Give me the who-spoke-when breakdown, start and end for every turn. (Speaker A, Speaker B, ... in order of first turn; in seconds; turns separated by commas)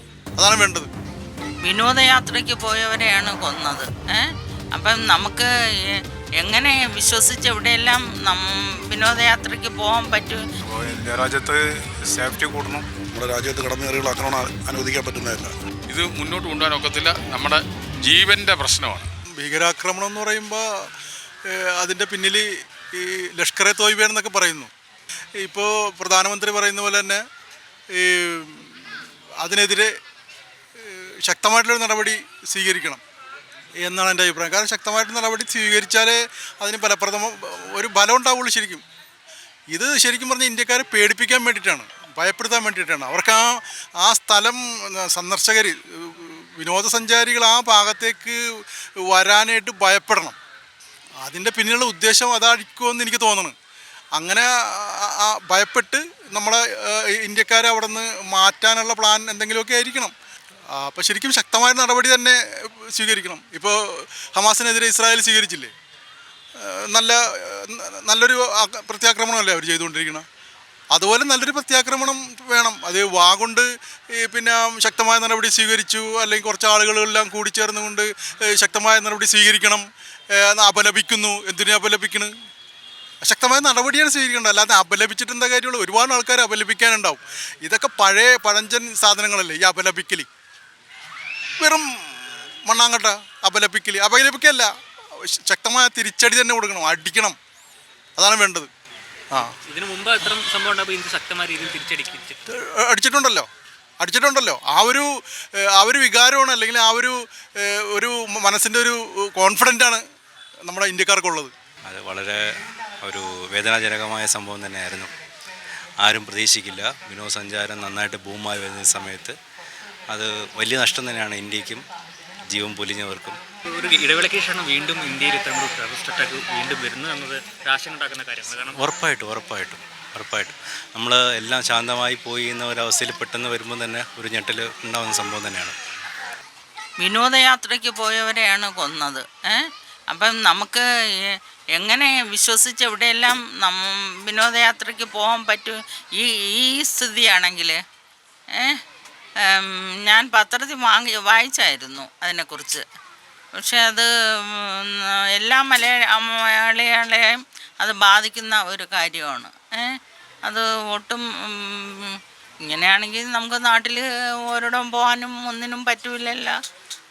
Speaker A: 0.3-0.9, Speaker B: 1.6-10.4, Speaker C: 10.7-12.8, Speaker D: 13.1-15.5, Speaker E: 15.9-19.1, Speaker A: 19.4-20.6, Speaker A: 21.4-24.7, Speaker A: 25.4-27.2, Speaker A: 27.9-28.7, Speaker A: 29.4-30.0, Speaker A: 30.8-33.0, Speaker A: 33.8-38.8, Speaker A: 39.7-50.4, Speaker A: 51.2-53.5, Speaker A: 54.1-60.1, Speaker A: 60.7-65.7, Speaker A: 66.6-70.2, Speaker A: 70.9-82.3, Speaker A: 83.2-90.3, Speaker A: 91.6-92.1, Speaker A: 92.7-97.4, Speaker A: 98.2-98.7, Speaker F: 99.4-102.4, Speaker A: 102.5-110.0, Speaker A: 110.7-111.5, Speaker G: 111.8-112.4, Speaker G: 113.0-115.1, Speaker G: 116.0-119.3, Speaker G: 120.1-121.8, Speaker G: 122.4-123.4, Speaker F: 123.7-128.8, Speaker G: 128.7-135.8, Speaker B: 137.0-147.8, Speaker B: 148.5-148.8, Speaker B: 149.4-152.8, Speaker B: 153.6-162.2, Speaker B: 162.7-166.6